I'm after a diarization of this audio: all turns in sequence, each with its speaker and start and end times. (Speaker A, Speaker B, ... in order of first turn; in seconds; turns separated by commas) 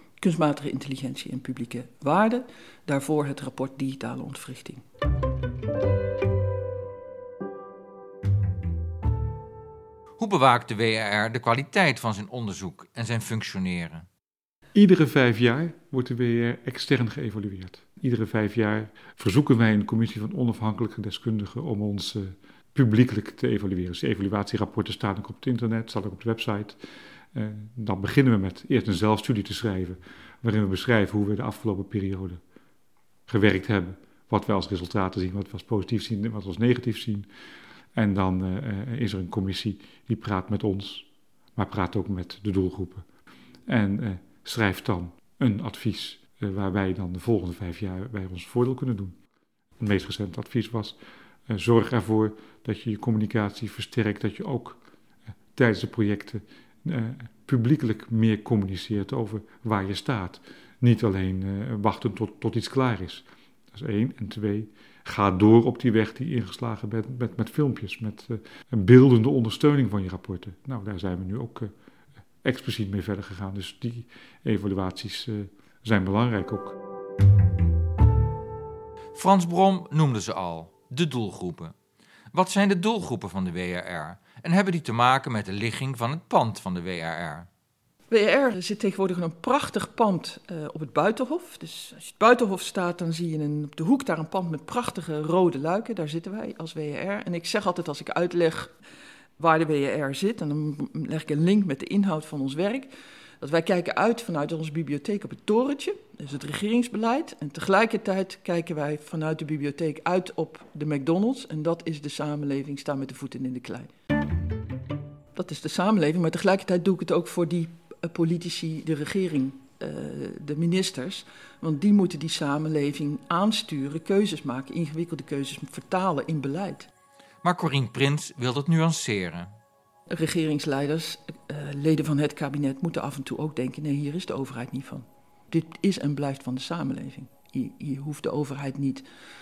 Speaker A: 0.2-4.8, Speaker B: 10.2-14.1, Speaker C: 14.7-26.8, Speaker C: 27.3-32.4, Speaker C: 33.3-37.3, Speaker C: 38.0-43.0, Speaker C: 43.7-49.2, Speaker C: 49.8-51.0, Speaker C: 51.5-54.8, Speaker C: 55.5-71.7, Speaker C: 72.4-76.8, Speaker B: 79.2-81.7, Speaker B: 82.3-87.5, Speaker A: 88.1-98.7, Speaker A: 99.4-113.9, Speaker A: 115.3-126.9, Speaker B: 127.4-129.5, Speaker A: 130.1-139.1